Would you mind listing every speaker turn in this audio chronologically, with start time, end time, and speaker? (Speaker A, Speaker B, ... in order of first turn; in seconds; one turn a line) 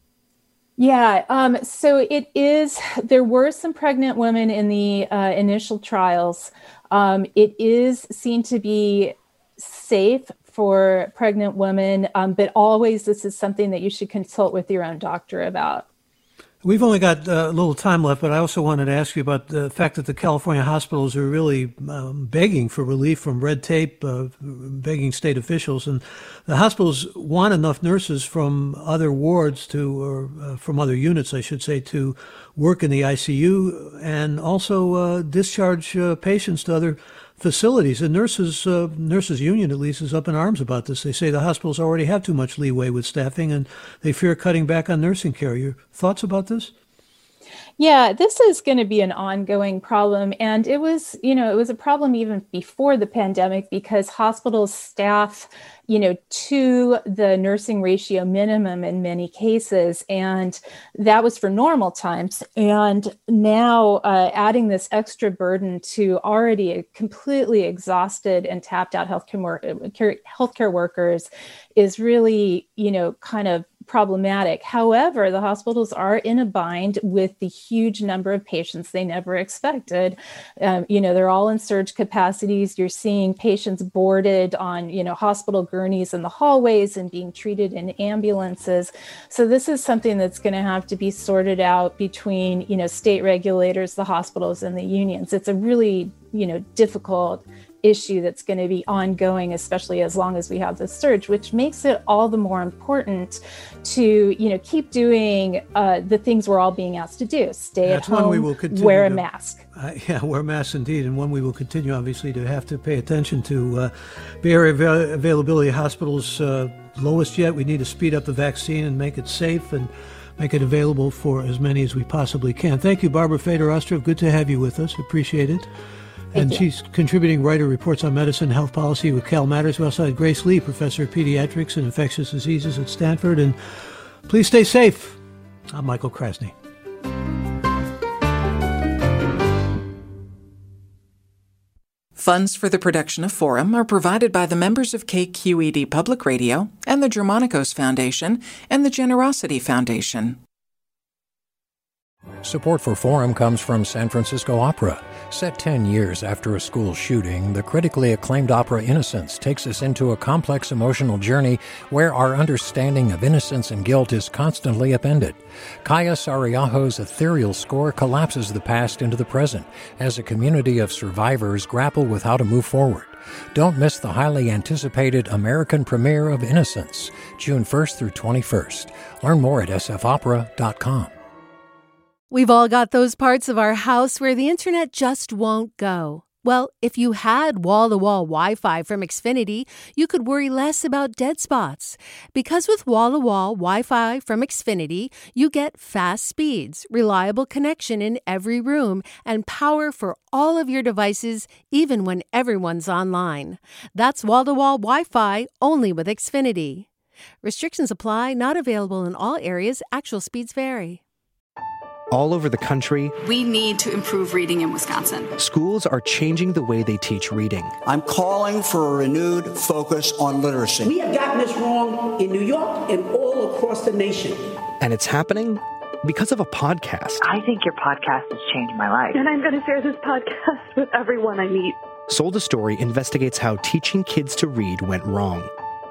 Speaker A: 0.8-15.8
Speaker B: 16.6-46.7
Speaker A: 47.8-109.6
Speaker B: 107.8-125.7
Speaker B: 126.3-135.2
Speaker A: 126.3-126.6
Speaker B: 135.7-136.5
Speaker C: 142.2-150.4
Speaker D: 152.4-181.1
Speaker E: 182.3-206.9
Speaker E: 207.4-211.0
Speaker F: 212.1-213.1
Speaker G: 213.2-215.3
Speaker F: 215.4-217.8
Speaker H: 217.8-220.9
Speaker I: 220.8-224.4
Speaker F: 224.8-227.2
Speaker J: 227.2-229.2
Speaker K: 229.1-231.7
Speaker F: 232.1-235.5